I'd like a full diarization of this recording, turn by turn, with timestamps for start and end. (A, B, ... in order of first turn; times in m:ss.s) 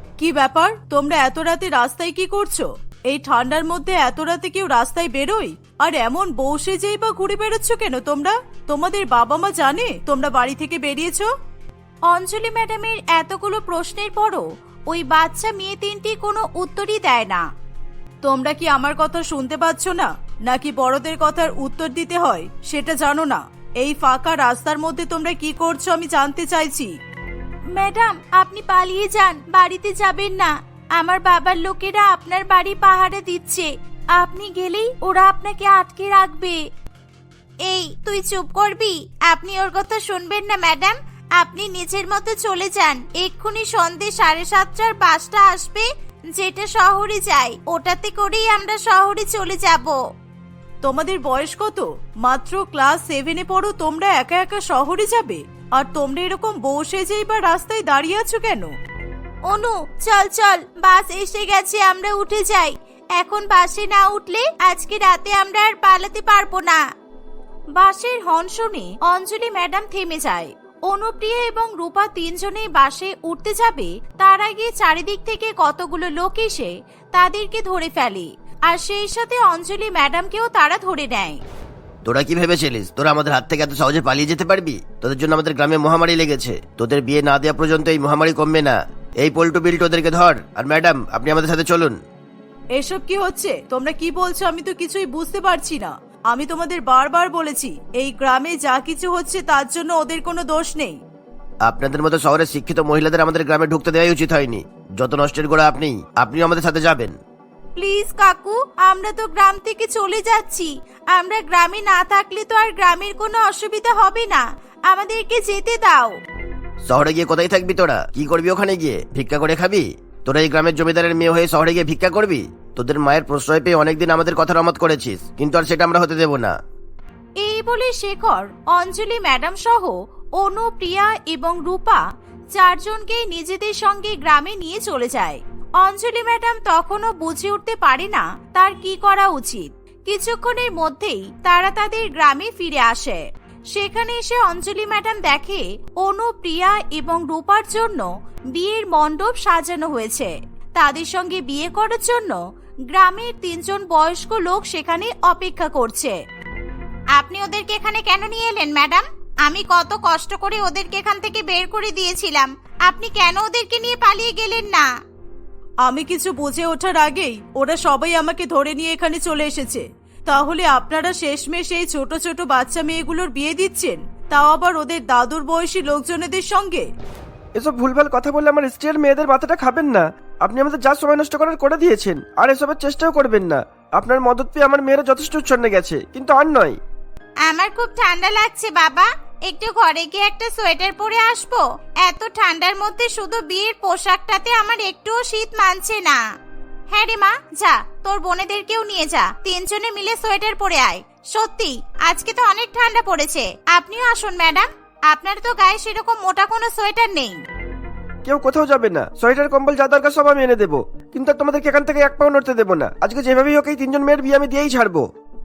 0:00.2-0:11.2 A
0:12.1-0:17.4 B
0:18.3-0:26.9 A
0:27.7-0:36.6 B
0:37.6-0:50.0 B
0:50.9-0:58.7 A
0:59.5-1:06.8 B
1:07.7-1:21.4 B
1:22.0-1:32.0 C
1:32.8-1:40.9 A
1:32.9-1:34.2 B
1:34.9-1:35.3 B
1:37.0-1:37.6 B
1:41.6-1:47.2 C
1:47.8-1:56.2 B
1:56.9-2:06.6 C
2:07.4-2:12.0 B
2:12.5-2:36.2 B
2:37.2-2:44.9 B
2:45.9-2:56.8 A
2:46.2-2:46.6 B
2:51.9-2:52.2 B
2:57.6-3:06.8 D
3:07.5-3:16.2 B
3:16.9-3:27.4 B
3:28.2-3:35.0 D